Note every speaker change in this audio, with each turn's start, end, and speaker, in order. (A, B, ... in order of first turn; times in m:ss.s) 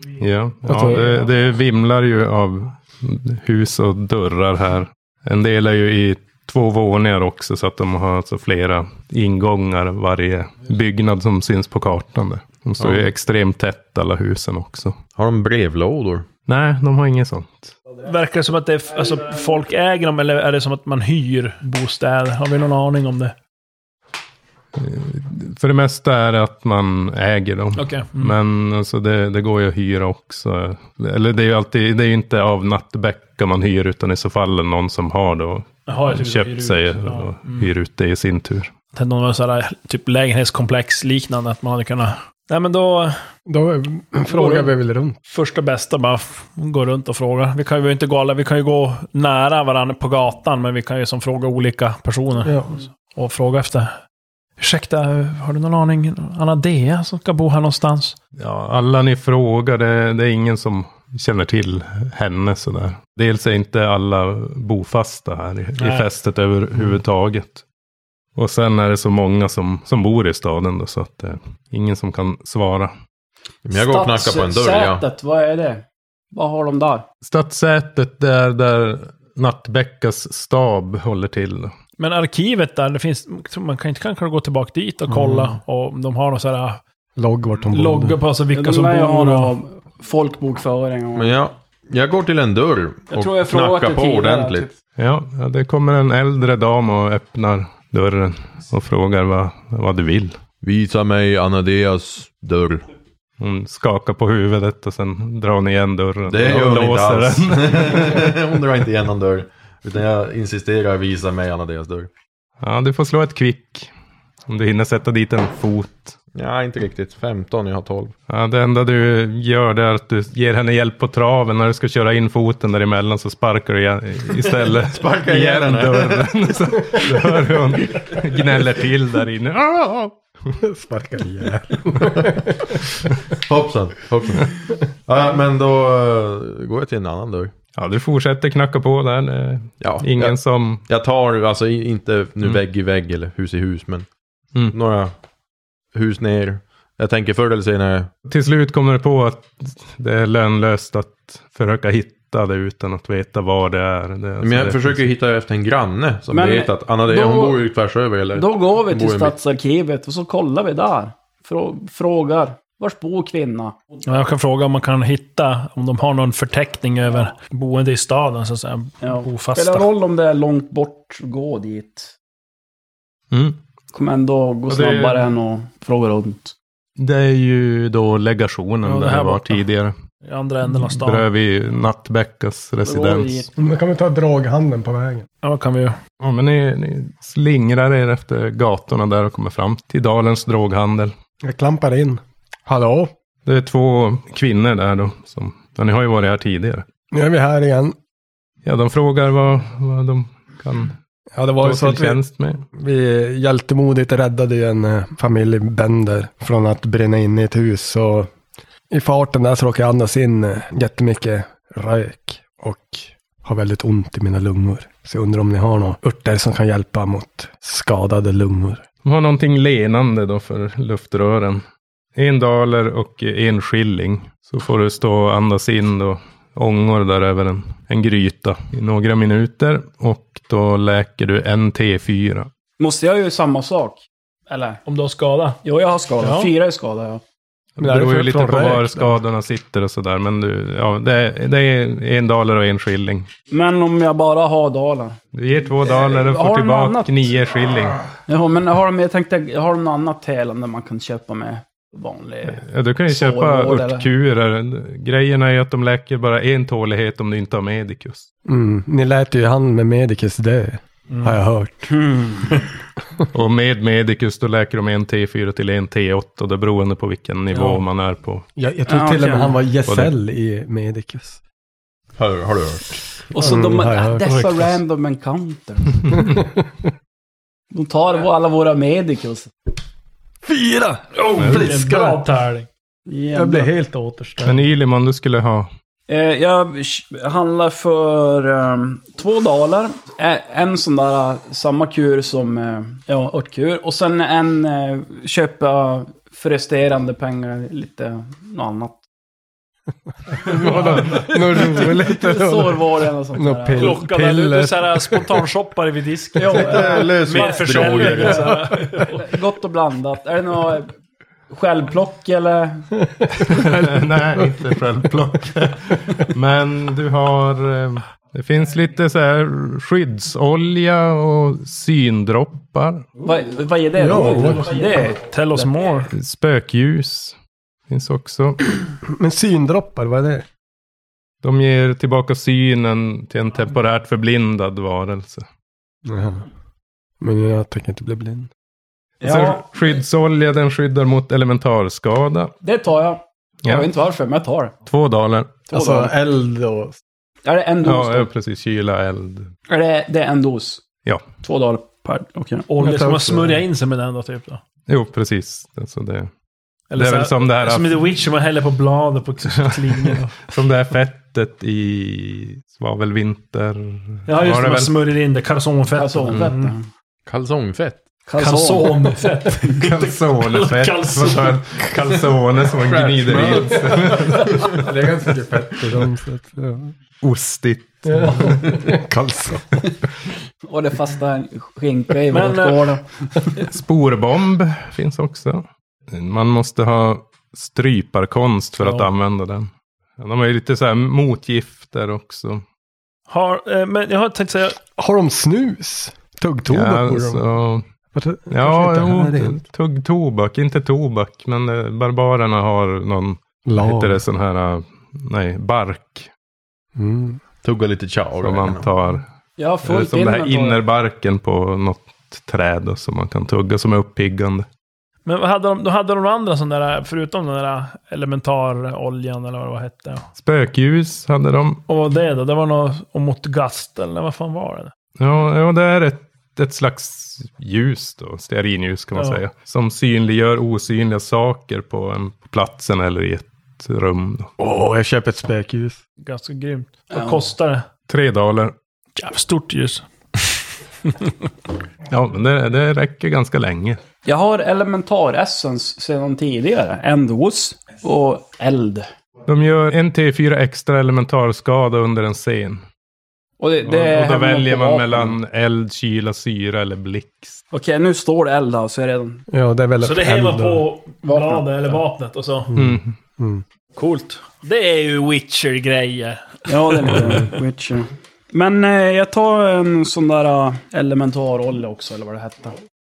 0:00.2-0:15.0 A
0:00.6-0:01.1 B
0:12.8-0:13.1 C
0:15.2-0:16.3 C
0:16.5-0:17.7 A
0:18.0-0:23.3 D
0:24.8-0:38.7 A
0:27.8-0:28.4 D
0:35.9-0:37.7 D
0:38.9-0:43.2 D
0:43.5-0:45.2 B
0:44.3-0:44.7 D
0:45.3-0:53.9 D
0:52.4-0:52.8 B
0:54.6-0:58.2 D
0:58.4-1:07.6 A
1:05.8-1:06.1 D
1:08.4-1:12.9 A
1:13.6-1:15.0 C
1:13.7-1:17.0 E
1:17.2-1:21.8 A
1:22.0-1:26.8 D
1:25.1-1:25.5 B
1:27.2-1:28.2 B
1:27.7-1:29.6 D
1:28.5-1:31.4 E
1:31.2-1:34.7 C
1:33.1-1:34.7 E
1:35.0-1:40.4 A
1:40.6-1:42.9 C
1:43.4-1:48.2 A
1:46.3-1:52.1 C
1:52.6-1:53.9 A
1:54.5-1:56.2 A
1:56.4-1:58.2 C
1:58.3-2:10.2 A
2:04.8-2:06.4 C
2:10.6-2:12.8 B
2:13.5-2:14.5 C
2:15.1-2:17.5 C
2:17.8-2:20.8 A
2:19.8-2:24.1 C
2:24.7-2:25.2 C
2:25.9-2:28.1 C
2:28.3-2:35.0 A
2:34.4-2:39.4 C
2:36.3-2:37.6 E
2:38.3-2:43.8 E
2:44.0-2:49.9 D
2:49.0-2:52.1 E
2:53.3-2:53.6 A
2:53.9-2:56.6 E
2:54.7-2:55.3 A
2:57.0-2:59.9 A
2:58.8-2:59.6 D
3:00.2-3:01.3 D
3:00.7-3:03.5 A
3:02.8-3:03.5 E
3:03.6-3:05.3 B
3:05.4-3:06.0 D
3:06.2-3:11.1 A
3:11.4-3:13.1 B
3:13.4-3:16.8 A
3:17.1-3:18.0 B
3:18.6-3:21.0 A
3:21.3-3:22.2 B
3:21.6-3:22.6 A
3:22.7-3:28.3 B
3:28.9-3:38.8 B
3:39.0-3:52.5 A
3:52.8-3:54.8 E
3:54.8-3:55.6 D
3:55.6-3:57.2 E
3:56.2-3:56.5 D
3:57.8-4:03.3 A
3:57.8-3:59.2 B
4:03.5-4:05.2 E
4:05.3-4:08.0 A
4:05.8-4:07.2 E
4:08.3-4:14.1 E
4:12.4-4:18.3 A
4:18.4-4:21.9 B
4:21.9-4:22.6 E
4:23.3-4:28.4 A
4:28.6-4:31.4 B
4:28.9-4:29.6 E
4:29.9-4:30.1 A
4:32.2-4:33.0 C
4:33.3-4:36.3 E
4:33.4-4:34.6 B
4:36.1-4:36.6 B
4:37.7-4:39.5 E
4:40.4-4:42.2 B
4:41.2-4:42.7 D
4:41.4-4:41.7 A
4:43.1-4:43.7 E
4:43.3-4:44.6 B
4:44.4-4:45.7 A
4:46.1-4:59.0 E
5:00.4-5:05.4 B
5:00.6-5:01.9 A
5:01.6-5:03.9 E
5:03.8-5:09.2 D
5:06.4-5:08.4 E
5:06.4-5:08.5 C
5:08.5-5:09.1 B
5:09.0-5:10.9 E
5:11.5-5:12.9 E
5:13.4-5:23.0 A
5:13.4-5:14.5 B
5:23.2-5:25.7 E
5:24.0-5:24.7 B
5:24.2-5:26.1 D
5:26.1-5:27.4 A
5:27.9-5:28.6 A
5:29.1-5:30.4 B
5:31.4-5:35.5 A
5:36.1-5:36.5 B
5:37.2-5:38.5 B
5:39.2-5:39.7 E
5:39.2-5:42.5 A
5:42.6-5:44.7 E
5:44.9-5:45.6 A
5:45.7-5:46.1 E
5:45.7-5:47.0 B
5:47.4-5:48.3 E
5:47.8-5:49.5 A
5:49.7-5:50.8 E
5:51.4-5:52.6 E
5:52.7-5:54.6 D
5:52.8-5:53.6 B
5:54.9-5:56.3 A
5:56.9-6:00.5 D
5:57.0-5:58.1 A
5:59.5-6:05.0 A
6:04.3-6:06.7 D
6:06.0-6:06.9 E
6:07.3-6:08.1 C
6:08.3-6:09.2 E
6:08.4-6:11.7 D
6:09.8-6:14.8 A
6:12.9-6:13.7 C
6:13.3-6:16.9 B
6:17.2-6:18.6 A
6:18.1-6:19.9 B
6:20.6-6:23.6 E
6:22.3-6:23.0 D
6:23.7-6:32.6 A
6:33.3-6:34.8 D
6:34.8-6:37.4 B
6:36.7-6:37.8 A
6:38.1-6:39.6 B
6:38.5-6:46.3 A
6:43.6-6:44.2 B
6:47.0-6:47.4 B
6:47.6-6:48.9 C
6:48.4-6:49.2 A
6:49.6-6:50.8 E
6:49.8-6:54.7 A
6:55.2-7:00.3 D
7:00.4-7:01.8 A
7:01.9-7:04.9 D
7:05.2-7:14.5 A
7:09.2-7:09.4 D
7:14.6-7:16.0 B
7:16.2-7:17.9 D
7:17.1-7:17.4 E
7:18.1-7:18.8 A
7:19.2-7:21.3 D
7:22.1-7:24.0 A
7:24.3-7:29.1 E
7:29.5-7:32.8 A
7:33.6-7:35.4 E
7:33.8-7:37.6 A
7:37.7-7:39.4 E
7:39.5-7:40.9 B
7:40.0-7:42.7 D
7:41.2-7:41.6 E
7:42.7-7:43.6 B
7:42.8-7:43.2 A
7:44.0-7:47.4 D
7:46.7-7:52.8 E